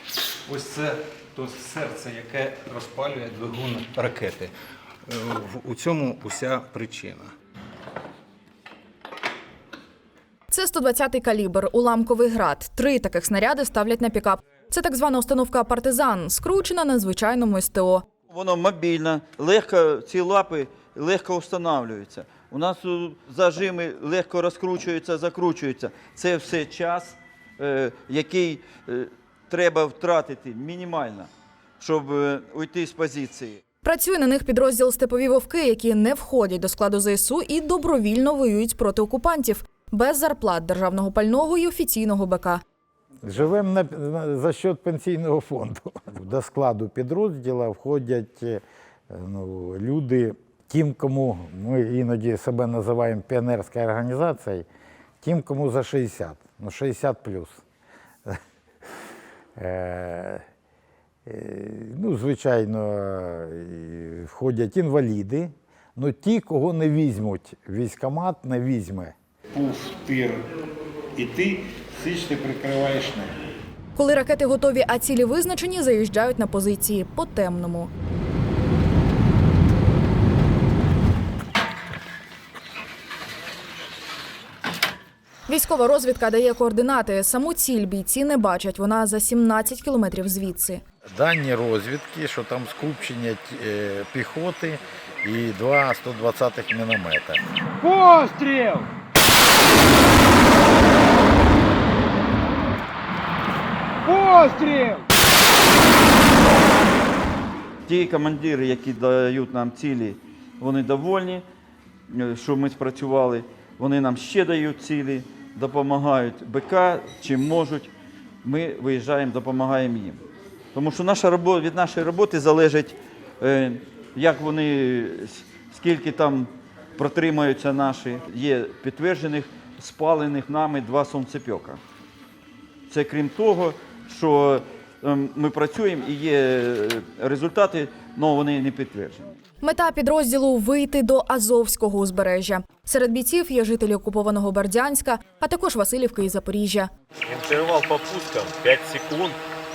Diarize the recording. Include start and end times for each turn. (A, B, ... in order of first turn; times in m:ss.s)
0:00.5-0:04.5 A
0:05.1-0:07.3 A
0:10.5-0:18.0 B
0:18.3-0:33.6 C
0:33.8-0:42.6 B
0:43.2-0:54.7 D
0:55.2-0:57.6 D
0:59.6-1:00.4 D
1:01.3-1:10.4 D
1:09.6-1:10.0 A
1:11.2-1:13.1 D
1:12.0-1:13.2 A
1:14.0-1:17.9 B
1:25.5-1:30.8 B
1:31.1-1:37.4 D
1:37.8-1:38.9 E
1:44.0-1:45.0 E
1:47.9-1:51.4 C
1:52.1-1:57.9 C
1:58.4-2:00.2 C
2:00.7-2:11.8 C
2:12.9-2:19.3 C
2:19.6-2:26.9 B
2:27.3-2:29.4 F